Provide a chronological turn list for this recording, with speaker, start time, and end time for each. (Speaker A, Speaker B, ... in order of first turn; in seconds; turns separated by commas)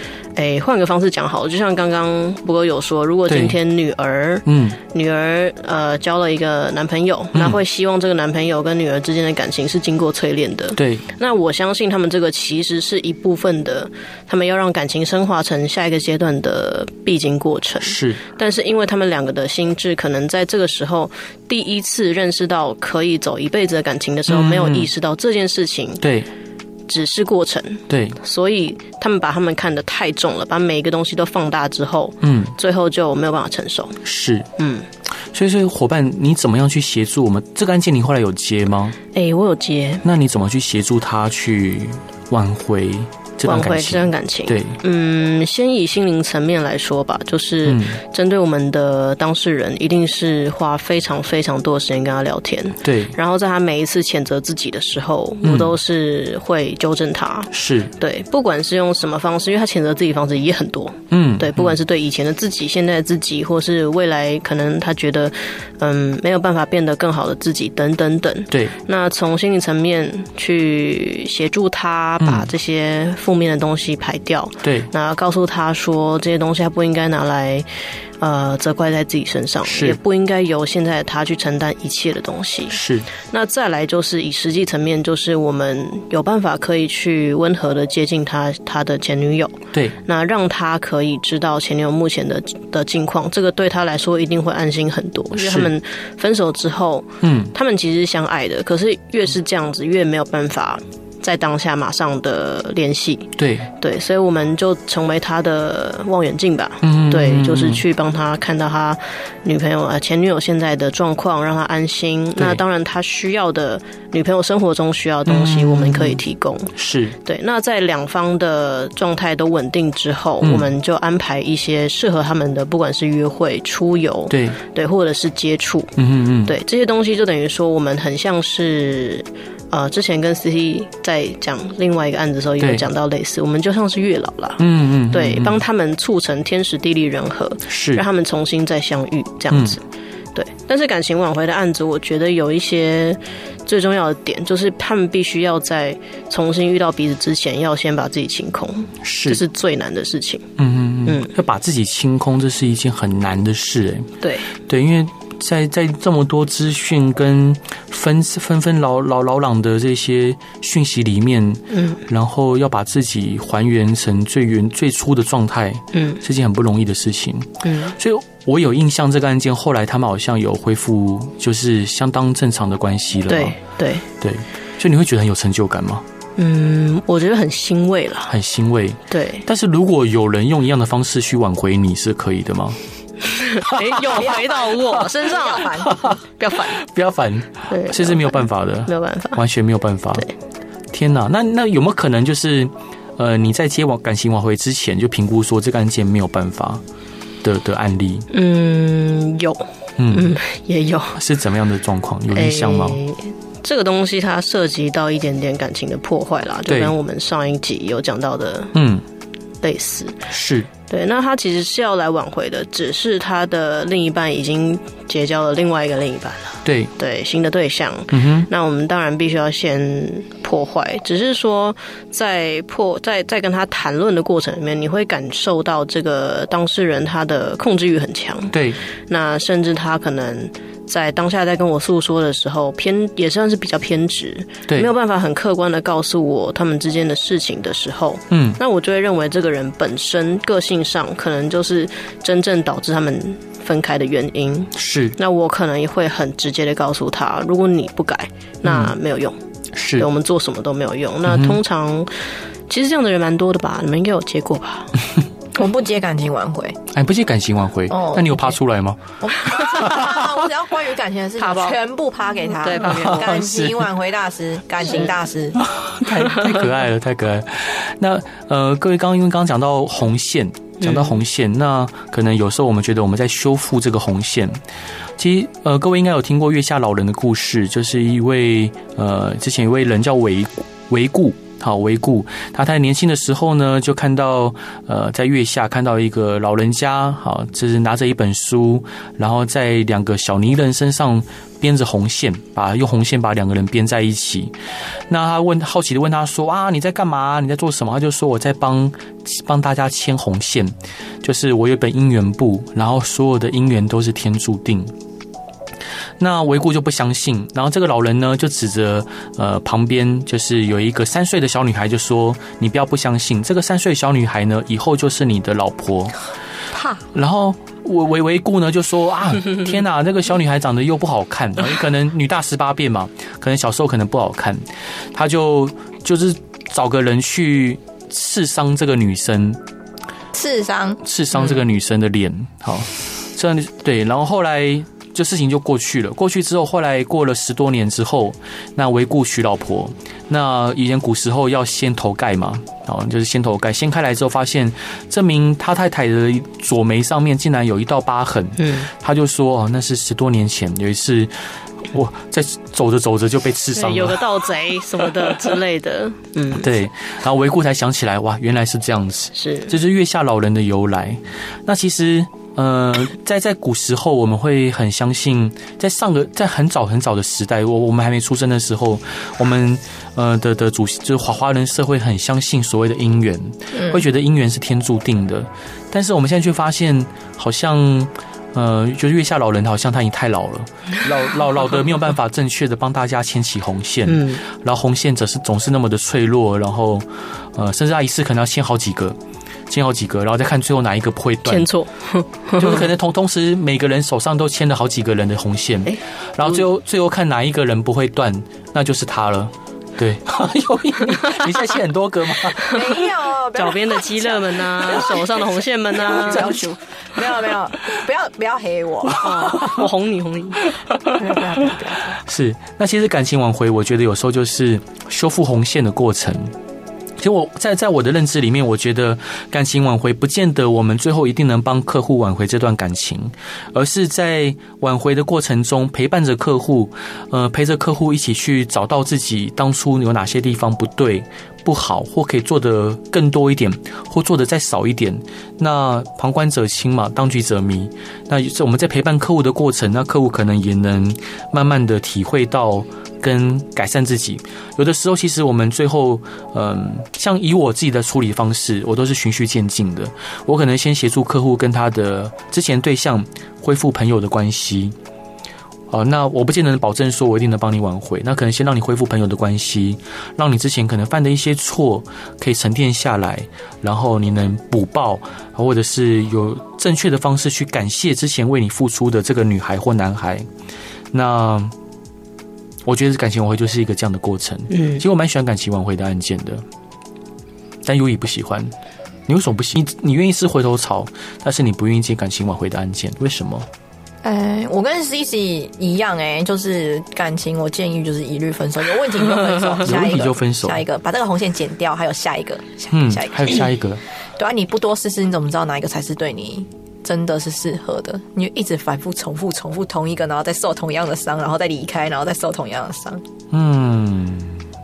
Speaker A: 0.4-26.0, Speaker B: 3.3-3.6, Speaker B: 4.5-4.8, Speaker B: 7.3-7.6, Speaker B: 10.8-11.1, Speaker B: 17.8-18.2, Speaker B: 24.3-24.9, Speaker B: 26.0-26.3, Speaker A: 26.9-34.0, Speaker B: 27.9-28.2, Speaker B: 32.2-32.5, Speaker B: 34.0-34.5, Speaker A: 34.6-34.9, Speaker B: 35.3-39.0, Speaker A: 39.1-40.0, Speaker B: 40.0-44.8, Speaker A: 43.5-77.7, Speaker B: 47.7-48.0, Speaker B: 52.8-53.1, Speaker B: 55.4-55.8, Speaker B: 57.5-57.9, Speaker B: 61.1-61.7, Speaker B: 72.2-72.5, Speaker B: 74.6-74.9, Speaker A: 78.2-125.9, Speaker B: 79.7-80.0, Speaker B: 82.7-83.1, Speaker B: 95.4-95.7, Speaker B: 97.2-97.5, Speaker B: 103.4-103.7, Speaker B: 106.8-107.8, Speaker B: 115.3-116.2, Speaker B: 116.8-117.2, Speaker B: 120.4-120.7, Speaker B: 124.3-124.6, Speaker B: 126.0-126.6, Speaker A: 126.5-139.8, Speaker B: 132.6-132.9, Speaker B: 134.6-135.6, Speaker B: 137.7-138.0, Speaker B: 139.5-139.8, Speaker A: 140.3-150.5, Speaker B: 149.0-149.4, Speaker B: 150.6-154.1, Speaker A: 151.1-151.3, Speaker A: 154.2-154.5, Speaker B: 154.7-173.6, Speaker A: 161.7-162.0, Speaker A: 165.9-166.2, Speaker A: 167.6-167.9, Speaker A: 173.3-174.1, Speaker B: 174.2-176.0, Speaker A: 176.4-178.3, Speaker B: 178.3-182.8, Speaker A: 179.1-179.5, Speaker A: 183.2-185.8, Speaker B: 183.7-184.1, Speaker C: 184.1-186.2, Speaker B: 185.7-190.3, Speaker A: 186.4-186.8, Speaker A: 187.7-189.4, Speaker B: 190.9-196.8, Speaker B: 197.4-198.3, Speaker A: 198.3-201.2, Speaker B: 200.0-200.4, Speaker B: 201.2-203.0, Speaker A: 202.3-208.7, Speaker B: 206.7-206.9, Speaker B: 208.7-209.0, Speaker A: 209.6-210.2, Speaker B: 210.3-210.7, Speaker A: 210.9-249.4, Speaker B: 216.7-216.9, Speaker B: 218.1-218.5, Speaker B: 228.5-228.8, Speaker B: 238.3-238.6, Speaker B: 244.8-245.2, Speaker B: 248.7-248.9, Speaker B: 249.8-250.1, Speaker A: 250.0-252.1, Speaker B: 251.3-251.6, Speaker A: 252.7-254.9, Speaker C: 255.5-256.8, Speaker B: 256.9-260.3, Speaker C: 257.9-258.6, Speaker C: 259.2-265.6, Speaker A: 261.4-261.8, Speaker A: 262.6-263.4, Speaker B: 262.9-263.8, Speaker B: 265.6-274.6, Speaker A: 266.2-266.5, Speaker A: 270.8-271.2, Speaker B: 275.2-294.5, Speaker B: 295.1-304.9, Speaker B: 306.2-316.2, Speaker C: 316.7-317.0, Speaker B: 317.1-329.6, Speaker C: 330.3-331.0, Speaker B: 331.0-354.2, Speaker A: 348.6-348.9, Speaker A: 353.7-356.7, Speaker B: 356.6-389.2, Speaker A: 359.4-359.7, Speaker C: 373.7-374.0, Speaker A: 384.1-384.4, Speaker B: 389.7-391.7, Speaker A: 391.5-392.9, Speaker B: 392.6-402.8, Speaker A: 395.9-396.6, Speaker C: 402.7-409.7, Speaker A: 403.5-406.6, Speaker B: 406.3-406.6, Speaker A: 409.2-410.7, Speaker C: 411.1-412.2, Speaker B: 412.2-416.5, Speaker B: 417.2-454.9, Speaker B: 455.9-470.5, Speaker B: 471.1-471.7, Speaker B: 472.9-476.6, Speaker A: 474.7-475.0, Speaker B: 477.9-478.7, Speaker B: 479.3-483.7, Speaker C: 484.2-493.7, Speaker B: 489.8-490.8, Speaker B: 492.9-494.0, Speaker C: 494.4-503.2, Speaker B: 503.5-504.6